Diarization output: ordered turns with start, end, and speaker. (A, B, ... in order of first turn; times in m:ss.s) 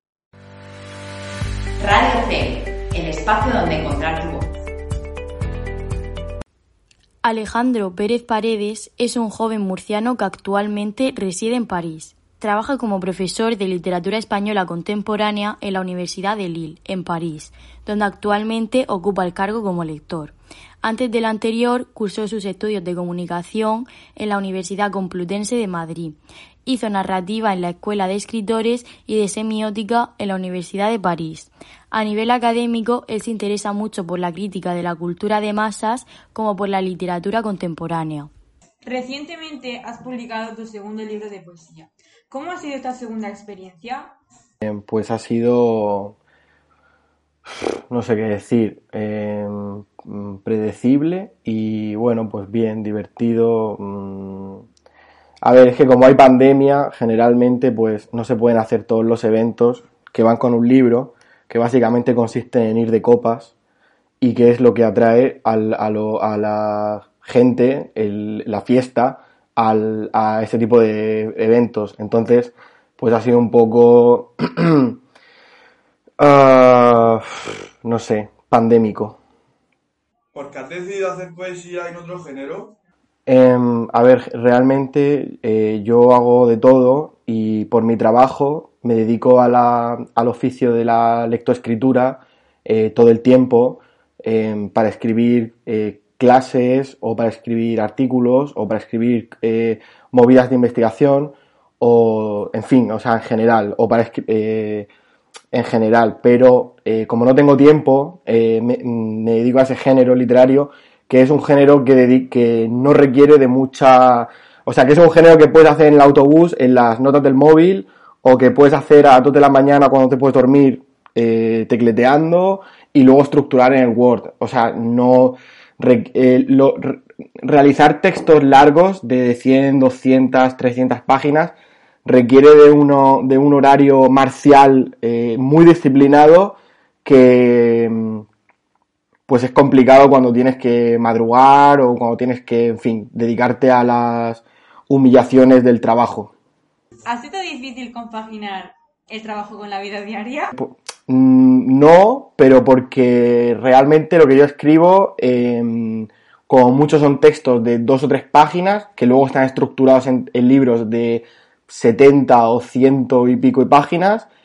0:01.8-0:04.5 A
0:07.2-0:38.3 B
0:38.8-0:44.1 C
0:44.6-0:46.2 D
0:47.9-0:54.6 D
0:55.4-1:03.5 D
1:04.2-1:15.0 D
1:16.2-1:19.2 D
1:20.3-1:22.8 E
1:23.3-1:44.9 D
1:45.5-2:11.5 D
2:12.0-2:18.2 D
2:19.3-2:26.3 D
2:27.0-2:30.5 C
2:30.6-2:44.2 D